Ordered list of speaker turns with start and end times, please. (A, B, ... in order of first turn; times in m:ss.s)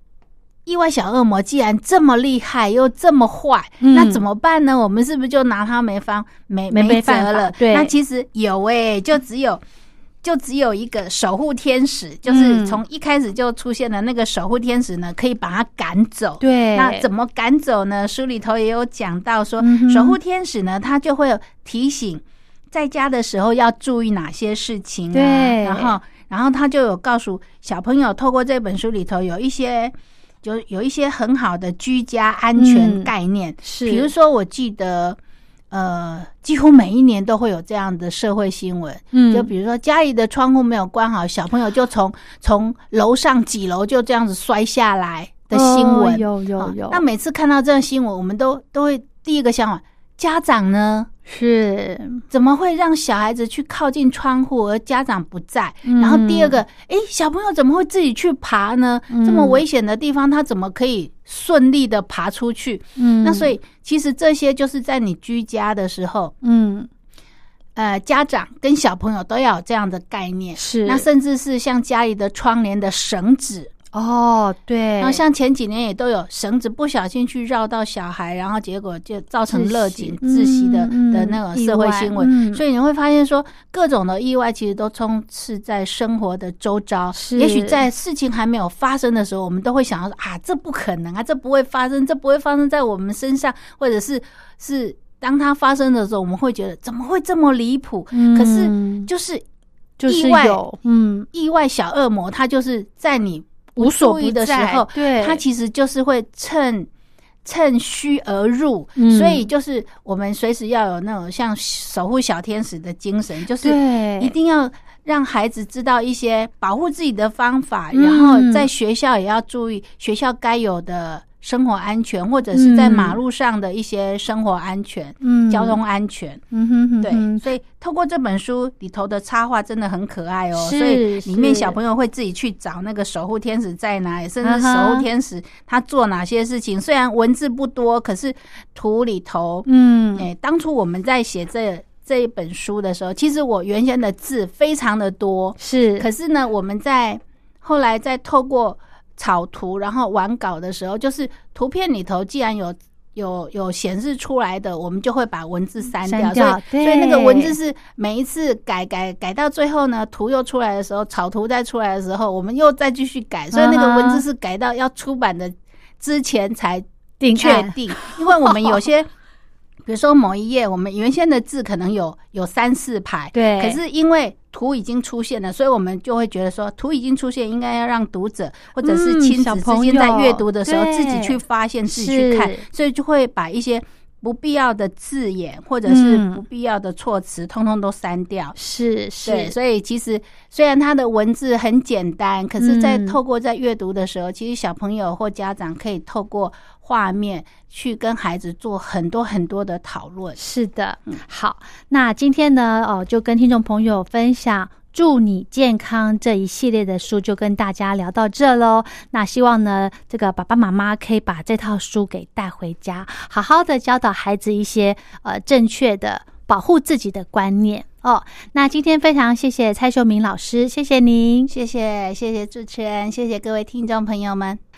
0:00.7-0:09.6 A
0:03.8-0:04.2 B
0:06.7-0:07.9 B
0:10.2-0:35.2 A
0:12.3-0:12.8 B
0:16.4-0:17.1 B
0:19.6-0:20.2 B
0:25.1-0:26.0 B
0:32.6-0:33.1 B
0:33.6-0:34.1 B
0:35.7-0:51.1 A
0:39.1-0:39.5 B
0:45.5-0:47.0 B
0:51.3-0:52.2 B
0:52.3-1:06.3 A
0:55.8-0:56.6 B
0:59.1-0:59.6 B
1:03.0-1:03.5 B
1:06.4-1:06.9 B
1:07.8-1:13.7 A
1:10.6-1:11.0 B
1:13.9-1:15.2 B
1:15.0-1:39.4 A
1:19.5-1:22.6 B
1:27.2-1:27.8 B
1:38.1-1:39.1 B
1:40.0-1:41.3 B
1:40.1-1:40.6 A
1:41.3-1:46.9 A
1:43.8-1:45.4 B
1:47.4-2:06.4 A
1:49.0-1:49.4 B
1:53.6-1:54.3 B
1:57.9-1:58.7 B
2:02.5-2:03.2 B
2:05.2-2:05.8 B
2:06.5-2:07.4 B
2:07.0-2:49.1 A
2:10.6-2:11.8 B
2:14.4-2:15.1 B
2:19.7-2:20.3 B
2:25.6-2:26.1 B
2:36.0-2:37.6 B
2:43.5-2:44.2 B
2:47.2-2:48.8 B
2:49.8-3:08.6 A
2:53.3-2:53.8 B
2:58.8-3:02.6 B
3:05.9-3:06.4 B
3:08.6-3:09.5 B
3:09.2-3:20.4 A
3:12.6-3:13.2 B
3:20.4-3:41.5 B
3:41.5-3:44.6 A